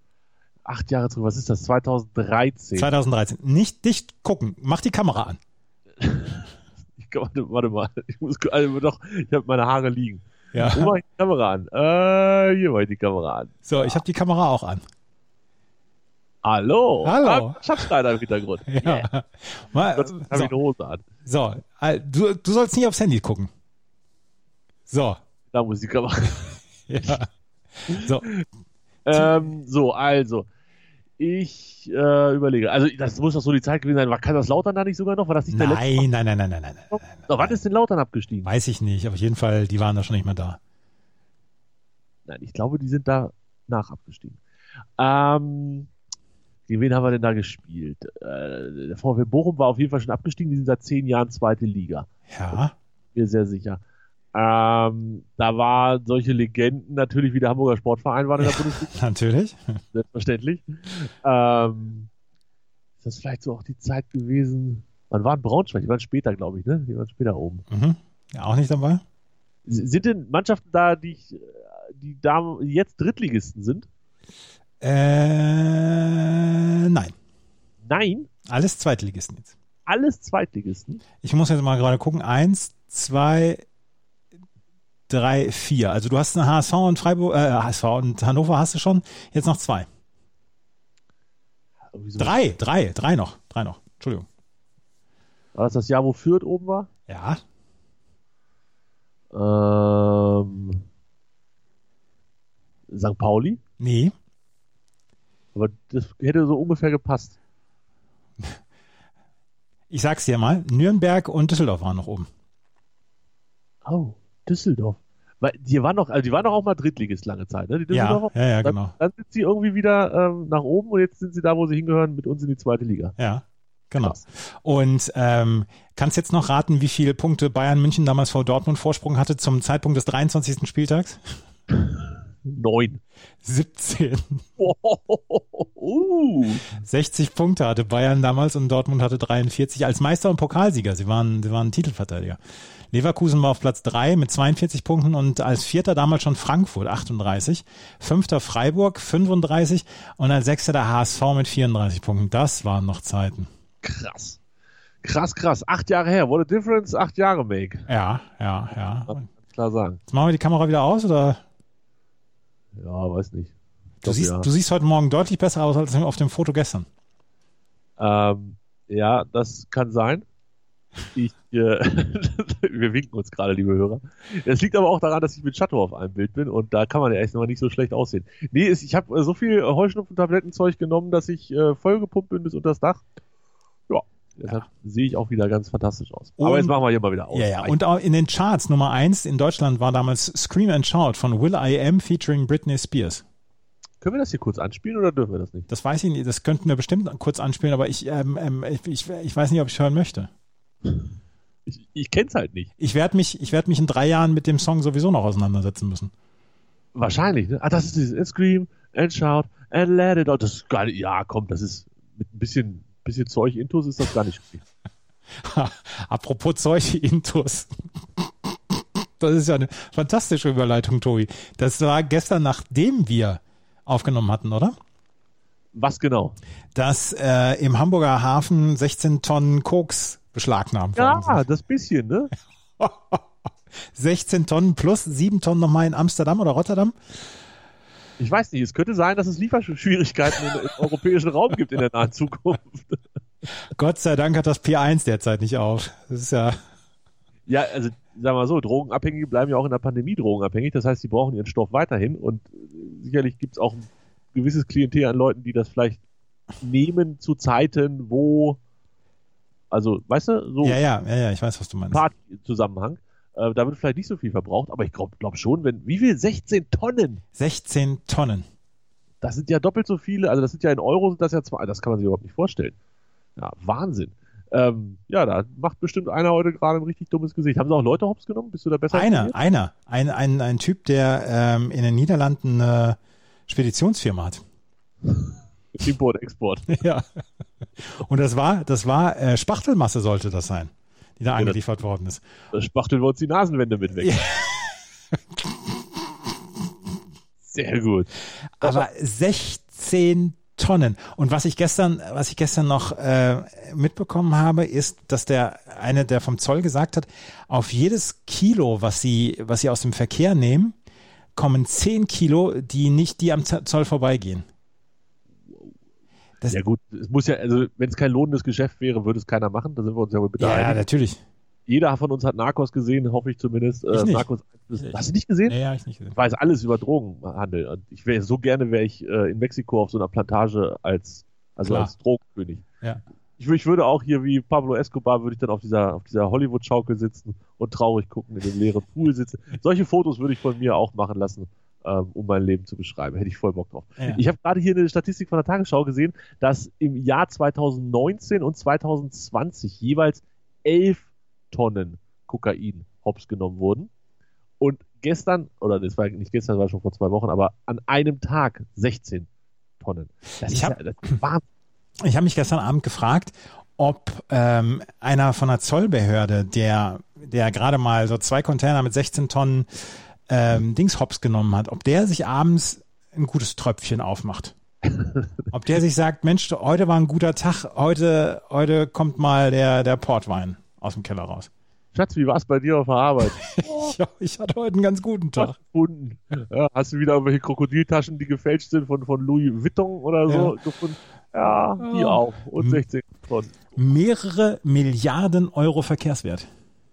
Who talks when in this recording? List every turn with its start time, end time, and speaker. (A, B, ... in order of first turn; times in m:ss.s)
0:00.6-0:02.9 A
0:02.8-0:05.4 B
0:06.0-0:14.0 A
0:10.5-0:10.9 B
0:13.7-0:14.8 B
0:16.4-0:19.1 A
0:17.0-0:17.8 B
0:18.7-0:20.5 B
0:19.9-0:21.0 A
0:21.2-0:23.5 B
0:24.9-0:25.2 B
0:25.5-0:27.2 A
0:26.9-0:27.3 B
0:27.9-0:28.4 A
0:27.9-0:28.3 B
0:29.0-0:30.5 A
0:31.2-0:36.1 A
0:35.5-0:37.6 B
0:36.9-0:38.5 A
0:38.4-0:40.6 B
0:42.3-0:44.4 A
0:45.0-0:45.9 A
0:46.7-0:52.6 A
0:52.3-0:52.8 B
0:53.2-0:53.8 A
0:54.3-0:59.0 A
0:58.4-0:59.6 B
0:59.9-1:02.1 A
1:03.0-1:07.6 A
1:07.7-1:09.0 B
1:09.7-1:13.9 A
1:14.8-1:17.1 B
1:17.8-1:18.3 A
1:18.5-1:19.5 B
1:19.9-1:21.0 A
1:21.2-1:23.6 B
1:25.1-1:29.9 B
1:31.9-1:32.4 A
1:32.2-1:34.3 B
1:35.6-1:36.9 A
1:37.1-1:37.4 B
1:39.3-1:40.8 A
1:42.9-1:43.6 A
1:43.8-1:44.2 B
1:45.6-1:47.4 A
1:49.9-1:52.3 B
1:53.8-2:03.2 A
1:57.9-1:58.9 B
2:03.2-2:11.2 B
2:11.7-2:13.0 A
2:13.4-2:14.5 B
2:14.6-2:16.7 A
2:16.7-2:22.4 B
2:22.9-2:33.5 B
2:33.8-2:34.4 A
2:35.0-2:37.9 A
2:37.9-2:39.2 B
2:39.1-2:40.0 A
2:40.1-2:41.4 B
2:42.8-2:44.5 A
2:44.0-2:46.9 B
2:48.0-2:50.2 A
2:51.1-3:03.0 A
3:03.9-3:07.8 A
3:06.4-3:06.7 B
3:07.3-3:13.2 B
3:14.0-3:15.7 A
3:15.7-3:20.3 B
3:21.7-3:22.7 A
3:22.8-3:26.1 B
3:26.9-3:34.6 A
3:35.4-3:44.8 B
3:45.8-3:46.4 A
3:46.8-3:51.4 B
3:51.0-3:52.3 A
3:52.8-3:53.2 B
3:53.9-3:57.0 B
3:58.2-4:03.0 A
4:03.7-4:06.6 B
4:07.5-4:16.0 A
4:16.6-4:18.6 A
4:19.7-4:20.8 A
4:20.6-4:22.0 B
4:21.9-4:27.2 A
4:27.4-4:28.5 B
4:29.2-4:32.8 A
4:33.4-4:39.4 A
4:38.9-4:44.4 B
4:45.1-4:46.8 A
4:46.7-4:47.0 B
4:47.8-4:52.2 B
4:52.5-4:54.2 A
4:54.0-4:54.8 B
4:55.4-4:55.8 B
4:57.4-4:58.9 A
4:58.6-5:10.8 B
5:11.4-5:14.4 B
5:16.5-5:20.8 A
5:20.4-5:21.2 B
5:21.7-5:25.6 A
5:23.9-5:24.2 B
5:24.8-5:26.2 B
5:26.1-5:32.6 A
5:31.6-5:31.9 B
5:33.4-5:53.9 A
5:54.6-5:59.3 A
5:59.8-6:01.4 A
6:00.5-6:00.8 B
6:02.0-6:09.7 B
6:10.3-6:14.6 B
6:14.9-6:15.3 A
6:15.5-6:21.5 B
6:21.9-6:23.9 A
6:23.5-6:25.6 B
6:25.4-6:33.6 A
6:30.3-6:30.6 B
6:31.8-6:32.8 B
6:33.8-6:36.5 B